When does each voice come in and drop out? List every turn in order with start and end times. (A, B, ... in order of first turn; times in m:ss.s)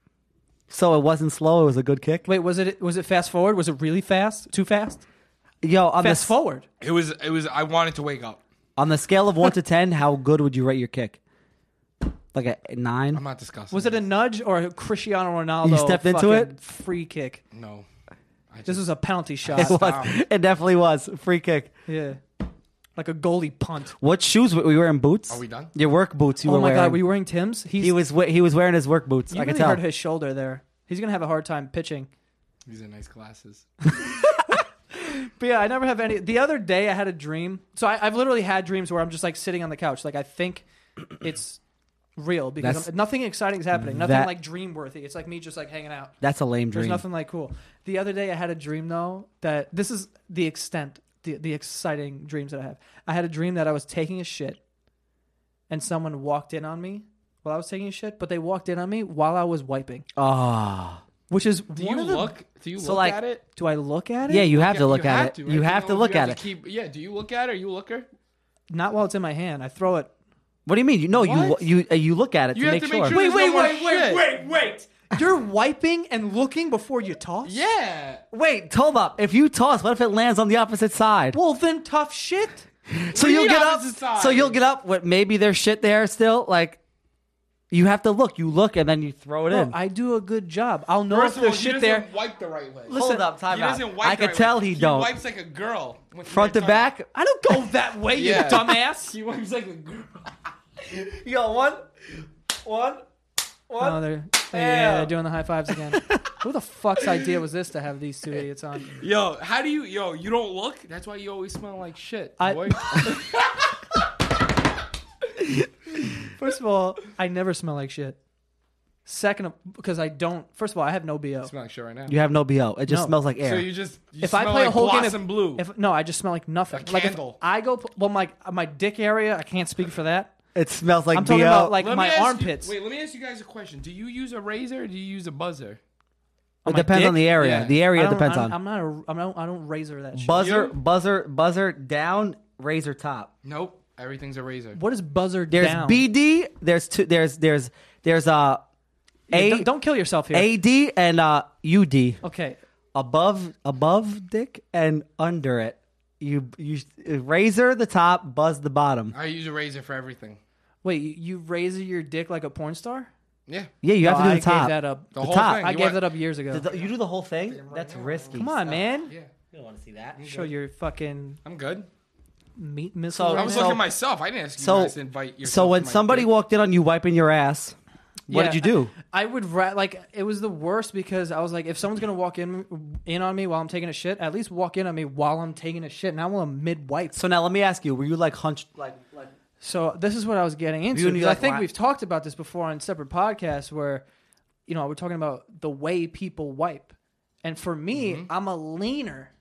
0:00.7-0:02.2 A
0:02.2-0:05.0 B
0:05.6-0:06.3 A
0:06.0-0:06.6 B
0:06.8-0:08.4 C
0:08.8-0:11.2 A
0:12.3-0:13.2 A
0:13.1-0:14.0 C
0:13.7-0:17.4 B
0:15.6-0:16.5 A
0:17.5-0:17.8 C
0:18.5-0:18.9 C
0:18.6-0:19.8 B
0:19.4-0:20.2 C
0:19.6-0:21.7 A
0:21.9-0:22.2 B
0:23.0-0:23.9 B
0:24.0-0:27.0 A
0:25.3-0:25.7 C
0:26.4-0:28.0 B
0:27.8-0:29.8 A
0:29.3-0:32.1 B
0:32.6-0:33.6 C
0:33.9-0:40.6 B
0:41.2-0:41.6 B
0:42.2-0:46.1 B
0:42.6-0:42.9 A
0:43.7-0:44.3 A
0:46.2-0:47.0 A
0:46.7-0:54.6 B
0:55.7-1:00.0 B
1:00.2-1:01.0 A
1:01.3-1:02.3 B
1:01.8-1:03.4 C
1:02.8-1:03.2 A
1:03.6-1:04.5 B
1:04.3-1:06.4 A
1:04.4-1:08.1 C
1:08.7-1:10.1 B
1:10.6-1:13.2 A
1:11.1-1:11.6 C
1:12.5-1:14.3 C
1:13.1-1:17.6 B
1:17.4-1:18.2 C
1:18.3-1:21.4 A
1:21.3-1:22.6 B
1:22.9-1:26.8 A
1:23.1-1:24.6 C
1:27.7-1:29.8 A
1:29.5-1:32.0 B
1:31.1-1:36.9 C
1:32.9-1:33.3 B
1:32.9-1:35.1 A
1:36.2-1:37.1 A
1:37.1-1:39.1 B
1:38.1-1:40.5 C
1:40.9-1:41.9 A
1:42.6-1:43.0 A
1:43.7-1:45.1 A
1:43.8-1:48.9 B
1:45.9-1:46.2 A
1:48.9-1:53.3 C
1:52.4-1:53.2 B
1:56.3-1:58.2 B
1:59.0-2:01.5 B
2:01.4-2:02.2 C
2:02.1-2:03.7 A
2:02.9-2:03.1 B
2:03.4-2:05.6 C
2:04.2-2:10.3 B
2:06.7-2:07.4 C
2:10.5-2:11.8 A
2:11.1-2:12.7 B
2:11.8-2:15.8 C
2:16.6-2:20.6 B
2:16.6-2:18.6 A
2:17.4-2:17.8 C
2:20.1-2:23.3 A
2:20.4-2:20.7 C
2:23.4-2:24.8 C
2:24.8-2:26.0 B
2:25.5-2:28.6 A
2:29.3-2:29.7 A
2:29.3-2:30.5 B
2:30.3-2:32.2 A
2:32.2-2:32.6 B
2:32.9-2:39.1 A
2:39.1-2:40.4 C
2:40.8-2:43.1 B
2:43.8-2:45.6 A
2:44.0-2:46.7 B
2:45.1-2:46.1 C
2:46.5-2:48.6 A
2:47.5-2:49.3 C
2:48.3-2:49.1 B
2:49.5-2:50.2 A
2:50.2-2:50.5 C
2:50.2-2:51.4 B
2:51.4-2:51.9 C
2:52.6-2:53.8 B
2:53.1-2:53.8 A
2:53.3-2:56.3 C
2:54.6-2:57.7 A
2:58.3-2:58.9 A
2:58.3-3:07.2 B
3:07.1-3:09.3 A
3:09.6-3:14.0 B
3:10.9-3:11.7 A
3:14.7-3:19.3 B
3:17.9-3:18.3 C